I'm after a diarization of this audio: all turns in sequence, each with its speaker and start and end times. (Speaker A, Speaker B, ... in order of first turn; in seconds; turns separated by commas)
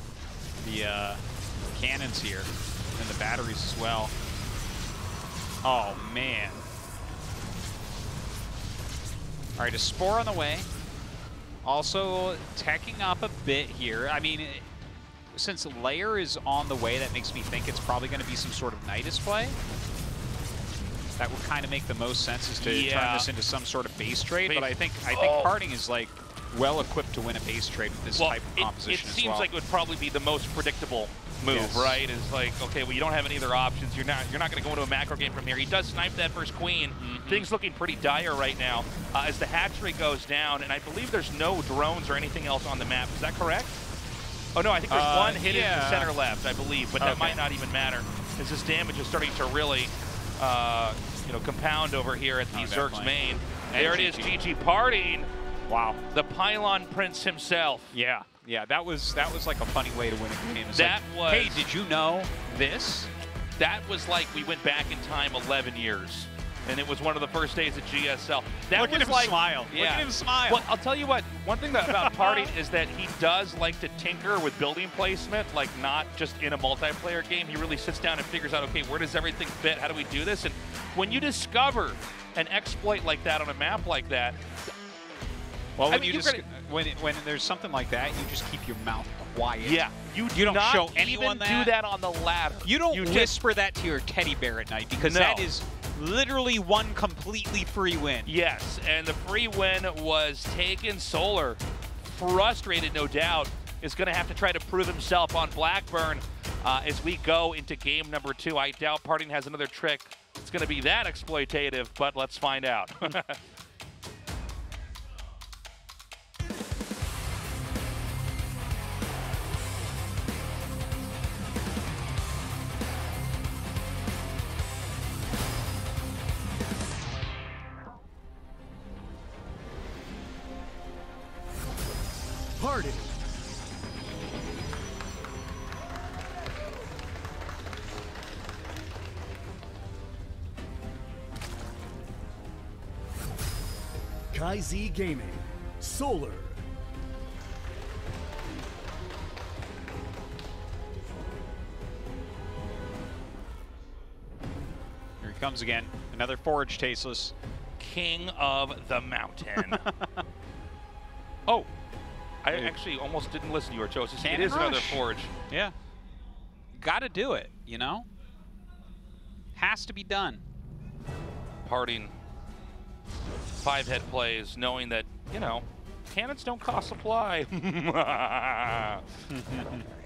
Speaker A: 0.6-4.1, Speaker A: 5.6-6.7, Speaker A: 9.6-10.7, Speaker A: 11.6-14.7, Speaker A: 15.3-19.6, Speaker A: 21.2-29.5, Speaker B: 22.6-23.3, Speaker B: 24.4-25.5, Speaker B: 28.2-43.8, Speaker A: 31.5-32.0, Speaker A: 37.0-37.5, Speaker B: 44.5-55.3, Speaker A: 44.9-46.1, Speaker A: 47.0-47.4, Speaker A: 52.5-53.1, Speaker A: 53.7-54.4, Speaker A: 55.7-56.0, Speaker B: 56.1-57.9, Speaker A: 57.9-63.1, Speaker B: 60.7-61.7, Speaker B: 63.6-84.4, Speaker A: 68.7-70.7, Speaker A: 71.8-72.5, Speaker A: 85.8-91.7, Speaker B: 85.9-86.4, Speaker B: 89.6-93.3, Speaker A: 92.6-98.3, Speaker B: 95.0-95.5, Speaker B: 98.2-113.4, Speaker C: 132.6-133.2, Speaker C: 144.3-146.6, Speaker A: 155.2-157.3, Speaker B: 157.8-159.8, Speaker A: 159.6-160.1, Speaker B: 162.4-165.3, Speaker A: 164.2-165.7, Speaker A: 166.7-168.1, Speaker A: 169.5-170.4, Speaker B: 171.6-172.1, Speaker B: 173.6-179.0, Speaker A: 179.3-179.9